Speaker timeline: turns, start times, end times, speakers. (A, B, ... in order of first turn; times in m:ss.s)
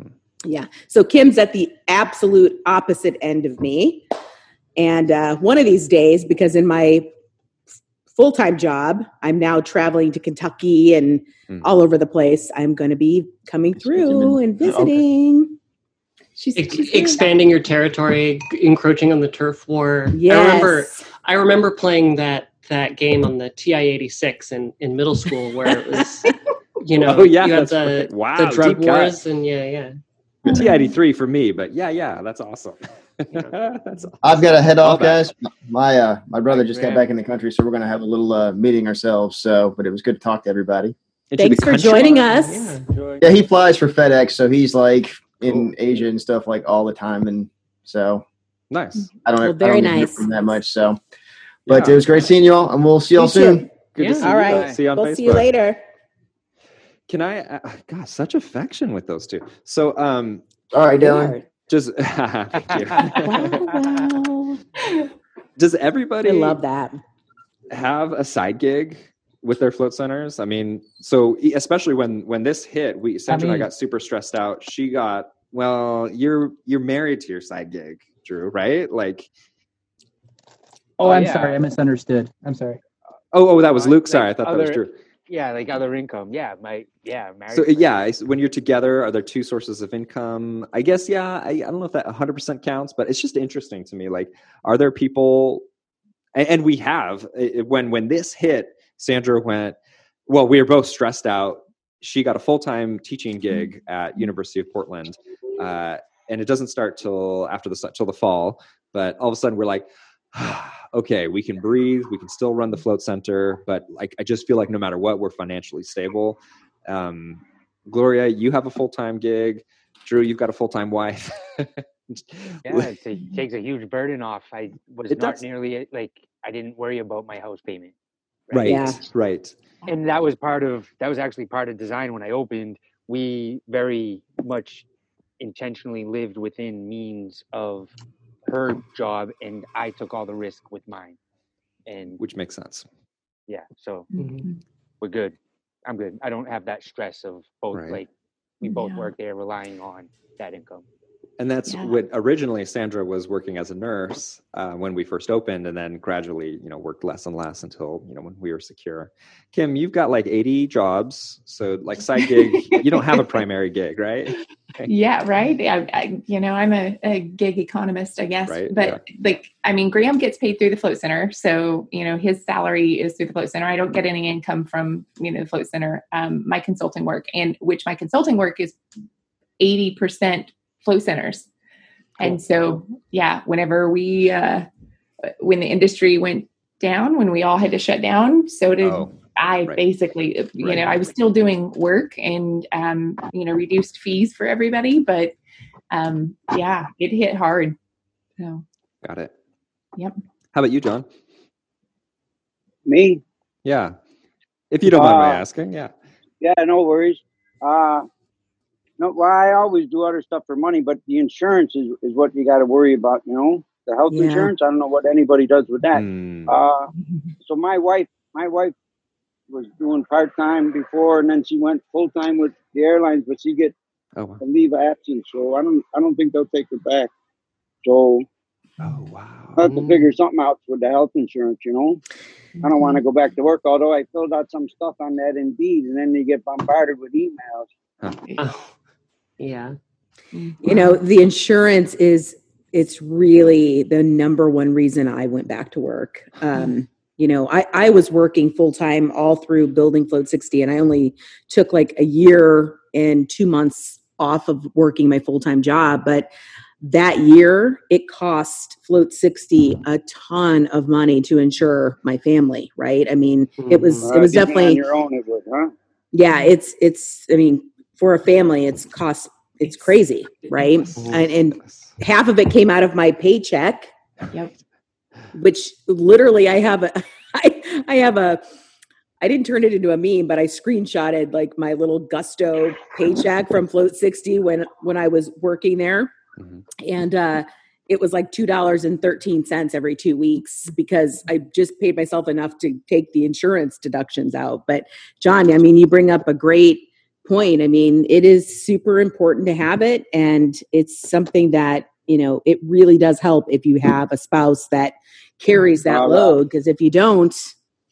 0:00.4-0:04.0 A
0:04.8-0:07.1 A
0:08.1-0:15.6 A
0:16.4-0:17.4 B
0:16.6-0:29.9 C
0:20.1-0:21.0 A
0:27.0-0:29.2 D
0:30.5-0:30.9 B
0:30.5-0:35.3 D
0:34.2-0:40.9 E
0:36.4-0:37.1 F
0:41.3-0:42.3 D
0:41.4-0:42.8 A
0:42.5-0:42.8 C
0:42.9-0:43.2 F
0:43.2-0:48.2 E
0:45.4-0:45.7 F
0:48.7-0:49.1 D
0:49.2-0:51.0 E
0:49.4-0:50.5 A
0:51.7-0:52.3 D
0:51.7-0:53.7 E
0:53.1-0:53.7 A
0:53.9-0:55.5 D
0:54.0-0:54.2 C
0:54.2-0:55.8 A
0:54.4-0:54.8 F
0:57.1-1:00.4 D
1:00.7-1:01.4 E
1:01.0-1:01.4 A
1:01.7-1:03.6 D
1:03.1-1:04.6 A
1:05.6-1:06.6 D
1:06.2-1:07.0 A
1:07.7-1:19.3 D
1:13.3-1:13.7 G
1:21.0-1:22.8 G
1:21.0-1:21.6 F
1:23.3-1:25.0 D
1:23.7-1:27.9 F
1:27.5-1:35.6 D
1:36.3-1:39.8 D
1:40.3-2:02.9 D
2:02.6-2:07.9 F
2:05.1-2:05.4 D
2:08.5-2:08.9 F
2:08.5-2:09.6 D
2:08.6-2:09.0 A
2:09.8-2:14.8 F
2:15.4-2:17.9 F
2:18.4-2:21.2 F
2:21.8-2:22.2 F
2:22.2-2:22.8 D
2:23.5-2:24.1 F
2:24.1-2:24.5 B
2:24.2-2:24.4 C
2:25.0-2:30.8 F
2:27.7-2:28.0 D
2:28.6-2:29.1 B
2:31.4-2:44.9 D
2:31.7-2:31.9 B
2:42.7-2:43.2 B
2:44.8-2:58.8 B
2:48.5-2:49.0 D
2:59.6-3:01.5 B
3:02.2-3:04.7 B
3:05.4-3:15.3 B
3:08.8-3:09.8 D
3:10.6-3:10.9 D
3:15.9-3:17.8 B
3:18.4-3:18.6 B
3:19.0-3:19.3 D
3:20.5-3:21.1 D
3:22.9-3:23.2 H
3:23.6-3:24.0 D
3:24.7-3:25.9 D
3:24.9-3:25.4 H
3:26.4-3:28.1 H
3:29.0-3:36.9 H
3:34.1-3:34.5 A
3:35.9-3:36.5 D
3:37.4-3:38.7 H
3:39.5-3:43.7 H
3:44.2-3:44.4 D
3:44.4-3:47.1 H
3:47.8-3:48.2 H
3:48.8-3:49.6 D
3:49.6-3:52.0 H
3:49.6-3:50.0 C
3:52.6-3:53.0 B
3:52.6-3:57.7 H
3:58.4-3:58.7 C
3:59.4-3:59.8 C
4:00.3-4:00.9 B
4:00.6-4:16.3 A
4:16.8-4:24.8 A
4:23.6-4:24.1 C
4:24.0-4:25.7 H
4:26.1-4:33.9 A
4:31.0-4:31.3 C
4:31.6-4:31.9 D
4:35.3-4:38.4 A
4:39.2-4:46.1 A
4:46.8-5:07.5 A
5:05.8-5:06.4 H